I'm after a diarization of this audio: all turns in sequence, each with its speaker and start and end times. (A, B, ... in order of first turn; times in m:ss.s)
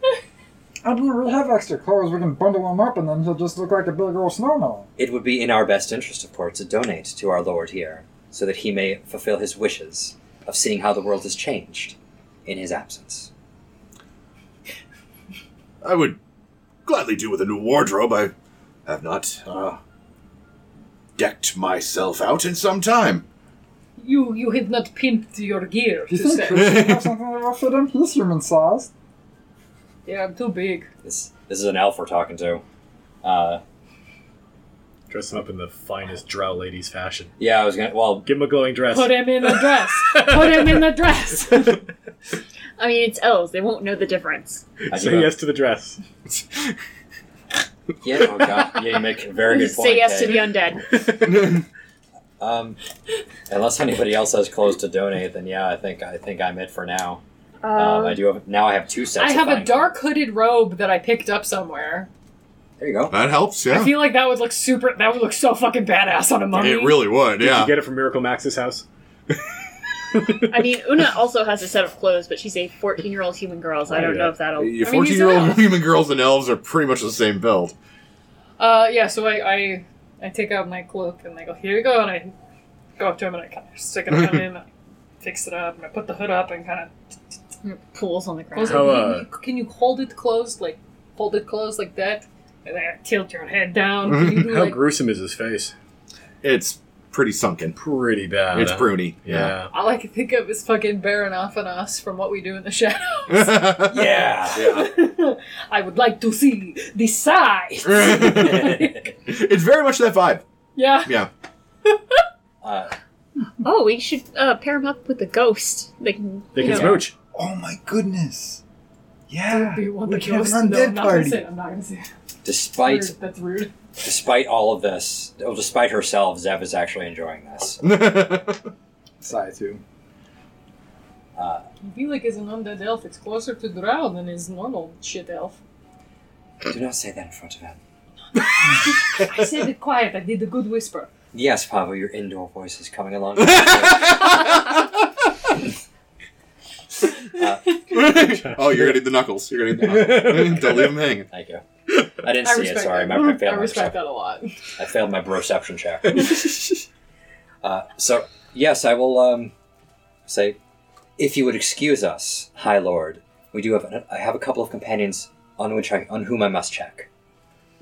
0:00.8-0:04.9 A
0:05.0-0:13.3 B
0:15.8-0:16.2 C
0:16.9-0:18.3 C
0:18.9-0:19.8 C
0:21.2-0:23.2 C
0:24.0-0:26.8 D
0:26.1-0:28.9 A
0:26.5-0:27.1 C
0:30.0-0:30.9 D
0:31.0-0:32.6 B
0:33.2-0:33.6 B
0:35.1-0:37.3 E
0:37.4-0:38.3 B
0:38.2-0:40.9 E
0:38.9-0:41.9 D
0:42.8-0:44.8 F
0:44.8-0:46.0 E
0:44.9-0:45.4 B
0:48.0-0:50.5 B
0:49.5-0:51.0 F
0:52.4-0:52.8 B
0:53.5-0:57.2 B
0:57.6-0:58.2 F
0:57.8-0:59.9 B
0:59.2-1:02.1 D
1:02.8-1:03.1 B
1:03.1-1:04.1 C
1:03.7-1:07.1 D
1:06.5-1:07.8 C
1:07.4-1:08.9 E
1:10.2-1:10.5 E
1:10.4-1:14.8 F
1:13.9-1:14.3 E
1:14.6-1:17.8 C
1:14.8-1:15.8 D
1:18.6-1:22.3 D
1:23.0-1:24.7 D
1:25.2-1:26.9 D
1:27.6-1:29.0 F
1:28.5-1:34.8 D
1:28.6-1:29.3 E
1:34.1-1:34.5 C
1:34.3-1:35.7 E
1:36.4-1:37.8 C
1:37.8-1:39.7 E
1:38.5-1:39.6 C
1:39.7-1:49.1 D
1:43.3-1:44.9 C
1:44.0-1:44.5 B
1:47.8-1:50.4 C
1:48.2-1:49.0 B
1:50.8-1:51.2 D
1:51.8-1:52.2 D
1:52.6-1:53.0 B
1:53.6-1:57.1 F
1:56.5-1:57.1 E
1:57.3-1:58.6 A
1:59.3-2:01.4 A
1:59.5-2:02.1 D
2:02.4-2:03.1 B
2:02.8-2:03.7 D
2:04.0-2:07.9 B
2:07.8-2:08.6 C
2:09.2-2:09.8 A
2:11.4-2:11.7 B
2:11.8-2:15.6 D
2:16.6-2:17.8 B
2:18.4-2:21.1 D
2:21.3-2:24.6 B
2:23.6-2:24.4 C
2:27.3-2:27.8 B
2:27.9-2:31.3 C
2:30.1-2:34.0 B
2:32.4-2:34.6 D
2:34.8-2:36.5 B
2:37.6-2:39.5 B
2:40.3-2:40.6 B
2:41.2-2:47.1 B